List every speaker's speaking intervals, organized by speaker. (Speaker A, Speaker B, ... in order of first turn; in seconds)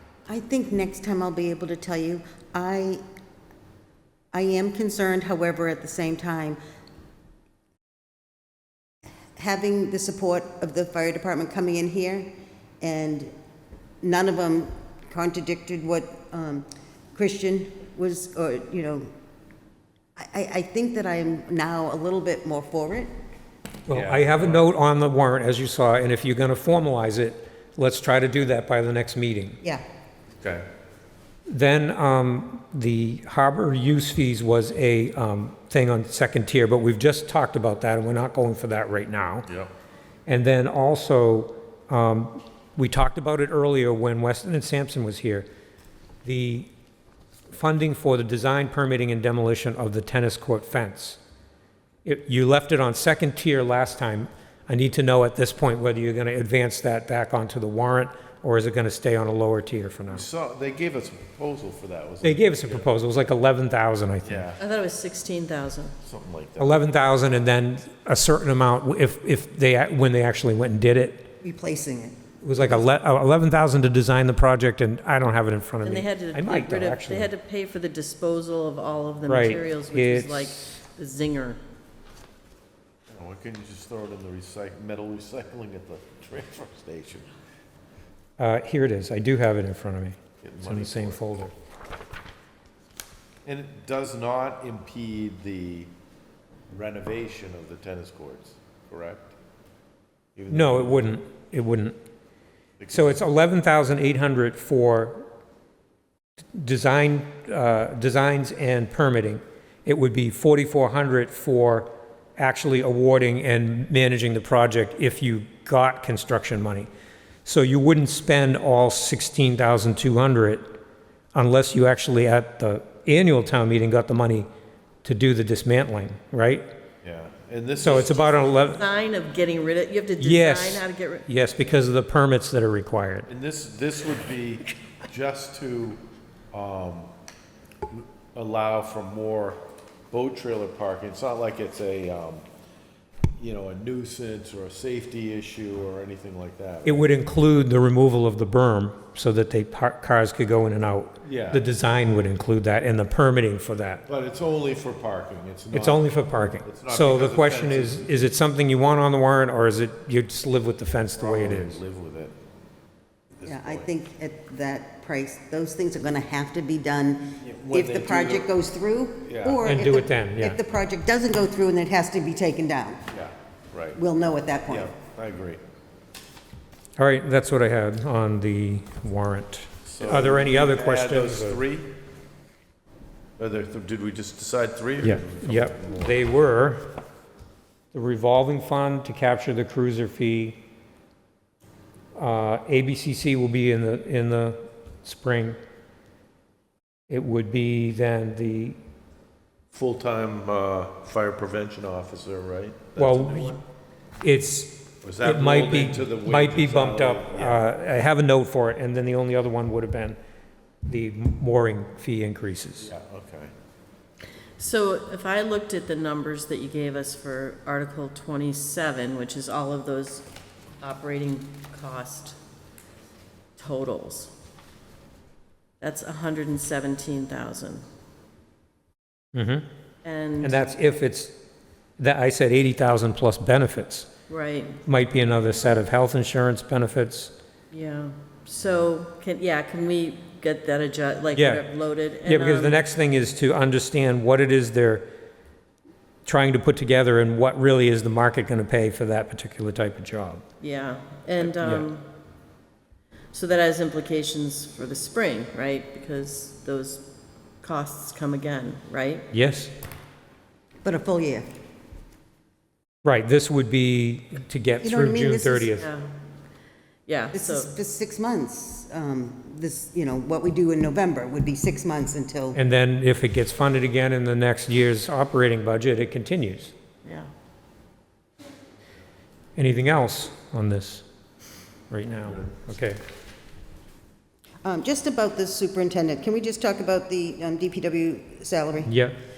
Speaker A: 0.3-3.0, 4.3-6.6, 9.3-12.3, 12.8-13.3, 14.0-19.1, 20.2-23.1, 71.4-72.2, 163.4-173.0, 173.9-174.9, 260.8-261.4, 264.8-265.7, 267.3-272.6, 284.6-288.9
Speaker B: 23.9-29.6, 31.5-39.5, 40.3-45.5, 46.2-46.7, 47.5-51.2, 52.0-60.3, 62.2-64.5, 66.6-71.3, 72.4-77.3, 79.3-80.8, 88.4-91.5, 100.5-102.0, 102.9-105.2, 106.5-116.9, 117.4-120.8, 121.3-124.5, 125.0-126.7, 127.8-128.8, 130.2-133.3, 146.8-154.0, 155.7-161.8, 169.6-170.6, 177.0-181.6, 185.0-186.9, 187.9-190.6, 192.2-195.6, 197.1-198.8, 202.9-203.6, 204.2-210.2, 210.8-212.9, 229.3-229.7, 230.4-231.4, 232.0-234.1, 234.8-237.3, 241.3-241.6, 242.2-245.1, 246.2-250.4, 251.4-251.8, 259.3-259.7, 263.0-265.9, 272.5-276.7, 279.6-281.0, 281.9-283.0, 288.9-289.1
Speaker C: 23.9-24.7, 30.4-30.6, 60.1-62.9, 64.2-64.6, 66.0-66.8, 83.1-87.3, 90.4-91.3, 93.4-95.9, 96.7-99.3, 100.3-101.1, 102.8-103.2, 127.0-128.6, 133.3-137.1, 137.9-139.6, 140.1-142.4, 143.4-147.0, 151.2-151.6, 154.1-156.1, 156.6-158.2, 161.2-162.3, 163.4-163.9, 167.4-168.5, 169.2-169.6, 173.1-174.0, 174.7-175.6, 179.8-181.9, 183.4-186.2, 199.7-203.6, 205.0-207.7, 212.8-213.5
Speaker D: 64.6-65.9, 75.8-81.6, 128.7-131.2, 214.6-220.3, 220.8-222.4, 223.6-224.3, 225.8-227.8, 230.0-230.6, 234.3-234.8, 237.7-242.8, 250.6-252.0, 253.3-257.1, 257.6-259.3, 265.8-266.1, 267.1-267.7, 277.0-277.3